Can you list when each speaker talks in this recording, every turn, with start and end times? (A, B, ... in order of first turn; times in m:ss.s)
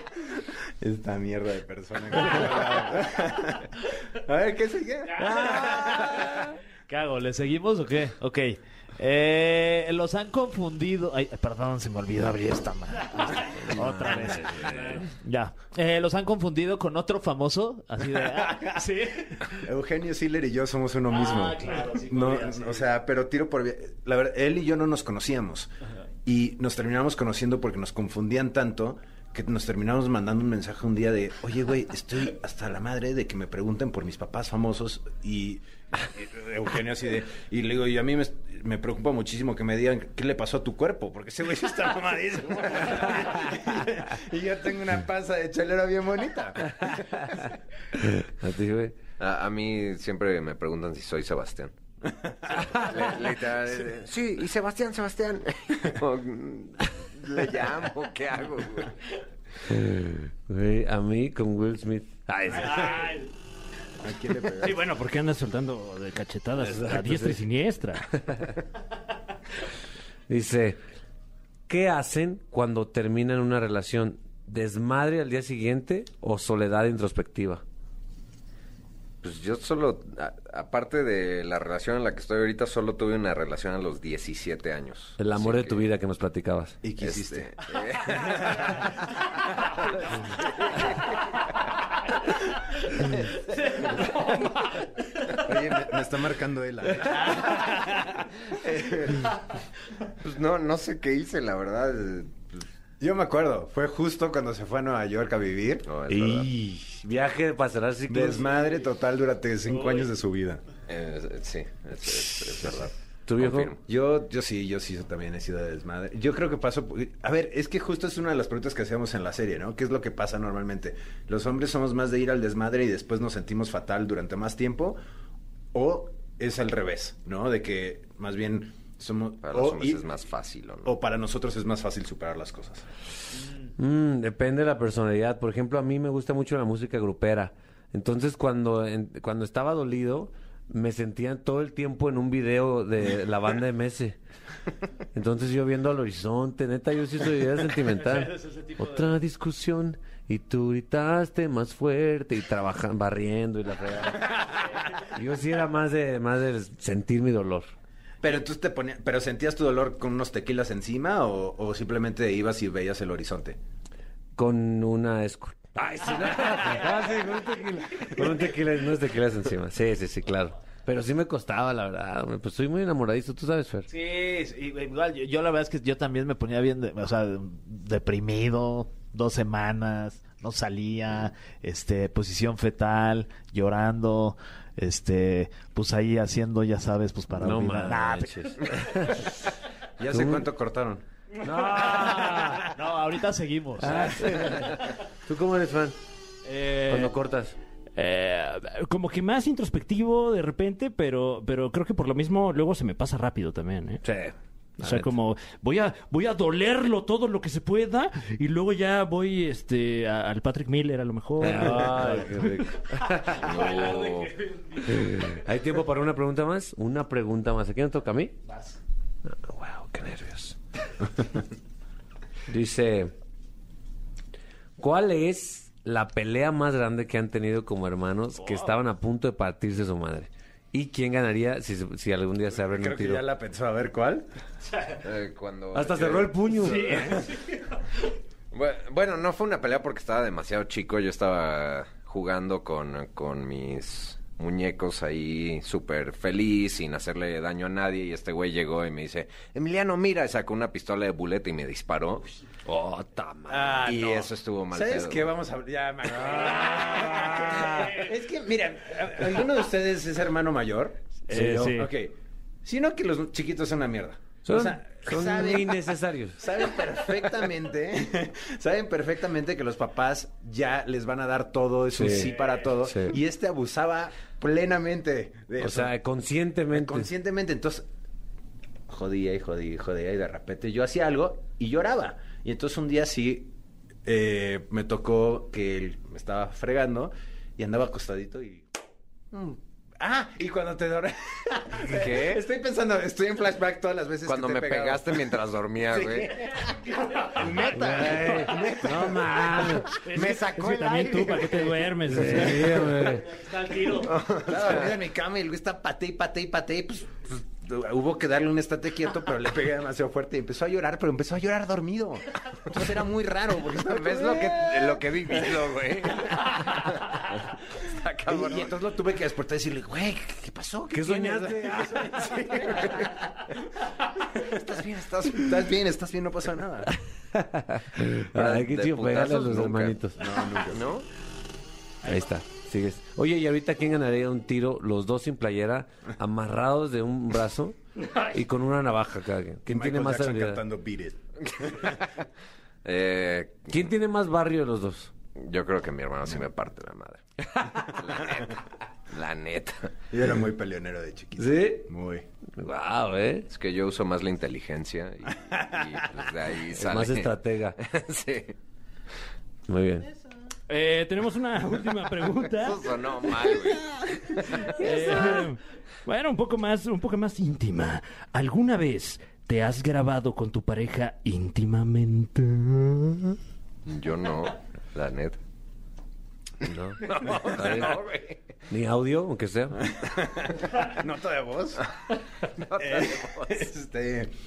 0:00.4-0:06.3 A
0:05.2-0:06.5 B
0:06.9-0:19.6 C
0:13.2-0:15.1 B
0:19.5-0:25.7 A
0:21.1-0:22.8 C
0:26.2-0:47.3 A
0:48.0-0:49.0 B
0:49.2-0:51.7 D
0:52.1-0:52.9 A
0:52.7-0:59.0 D
0:59.7-1:03.2 B
1:02.8-1:03.2 E
1:04.0-1:04.8 A
1:04.6-1:08.1 E
1:06.6-1:07.4 B
1:10.3-1:10.8 B
1:11.7-1:17.6 B
1:19.2-1:25.9 D
1:25.2-1:26.8 B
1:26.8-1:28.8 A
1:27.0-1:28.8 D
1:30.4-1:31.1 D
1:35.3-1:39.2 A
1:40.2-1:42.6 D
1:43.0-1:45.9 A
1:45.9-1:46.5 D
1:46.1-1:48.5 B
1:48.1-1:50.6 A
1:50.9-1:53.8 D
1:53.3-1:53.7 B
1:53.9-2:05.0 A
2:05.7-2:10.0 A
2:09.4-2:11.0 D
2:10.8-2:12.9 A
2:13.8-2:24.2 B
2:25.1-2:37.7 B
2:28.1-2:29.0 C
2:38.2-2:43.6 A
2:44.4-2:53.9 B
2:53.9-3:08.6 C
3:07.3-3:09.4 B
3:10.0-3:11.0 A
3:10.1-3:10.5 B
3:11.4-3:12.7 B
3:12.6-3:14.1 C
3:13.8-3:16.0 B
3:16.5-3:17.1 E
3:16.8-3:17.6 B
3:18.0-3:24.0 E
3:24.0-3:25.2 B
3:24.8-3:32.2 E
3:31.4-3:33.7 B
3:31.5-3:32.5 C
3:33.3-3:34.3 D
3:33.6-3:35.0 C
3:34.9-3:38.4 B
3:38.5-3:38.7 C
3:39.3-3:40.6 B
3:42.5-3:43.1 B
3:44.8-3:53.2 B
3:52.7-3:54.3 A
3:55.0-3:56.8 D
3:55.7-3:57.2 B
3:56.7-3:57.2 E
3:58.5-4:12.3 D
4:12.7-4:13.9 B
4:13.5-4:35.9 A
4:13.8-4:15.3 D
4:16.2-4:18.1 B
4:21.3-4:21.9 E
4:21.3-4:21.9 B
4:24.4-4:27.1 B
4:31.9-4:33.2 B
4:35.6-4:37.1 B
4:36.7-4:37.8 A
4:38.9-4:43.5 A
4:44.1-4:48.7 A
4:49.3-4:55.3 A
4:51.9-4:52.4 D
4:54.2-4:56.5 D
4:55.9-5:02.8 A
4:57.7-5:00.0 B
5:00.1-5:02.8 E
5:00.1-5:01.5 D
5:02.1-5:03.3 B
5:03.9-5:04.9 D
5:04.5-5:16.4 A
5:13.8-5:18.8 D
5:18.3-5:23.4 A
5:20.9-5:22.2 B
5:22.5-5:23.1 D
5:24.4-5:25.6 D
5:25.3-5:26.9 A
5:27.2-5:30.3 B
5:28.3-5:30.1 D
5:30.2-5:30.9 A
5:30.7-5:31.1 D
5:32.0-5:40.6 B
5:39.7-5:42.0 A
5:42.8-5:43.9 D
5:43.7-5:45.1 B
5:45.4-5:49.9 D
5:50.1-5:52.3 A
5:51.4-5:51.9 B
5:52.6-5:53.5 B
5:53.5-5:58.6 D
5:56.7-5:57.8 B
5:59.7-6:00.1 B
6:00.7-6:02.8 E
6:02.6-6:04.8 D
6:04.6-6:13.4 E
6:13.9-6:15.4 D
6:16.6-6:18.0 B
6:16.6-6:18.4 D
6:18.7-6:19.8 B
6:19.9-6:21.9 A
6:22.6-6:23.7 D
6:22.8-6:24.3 A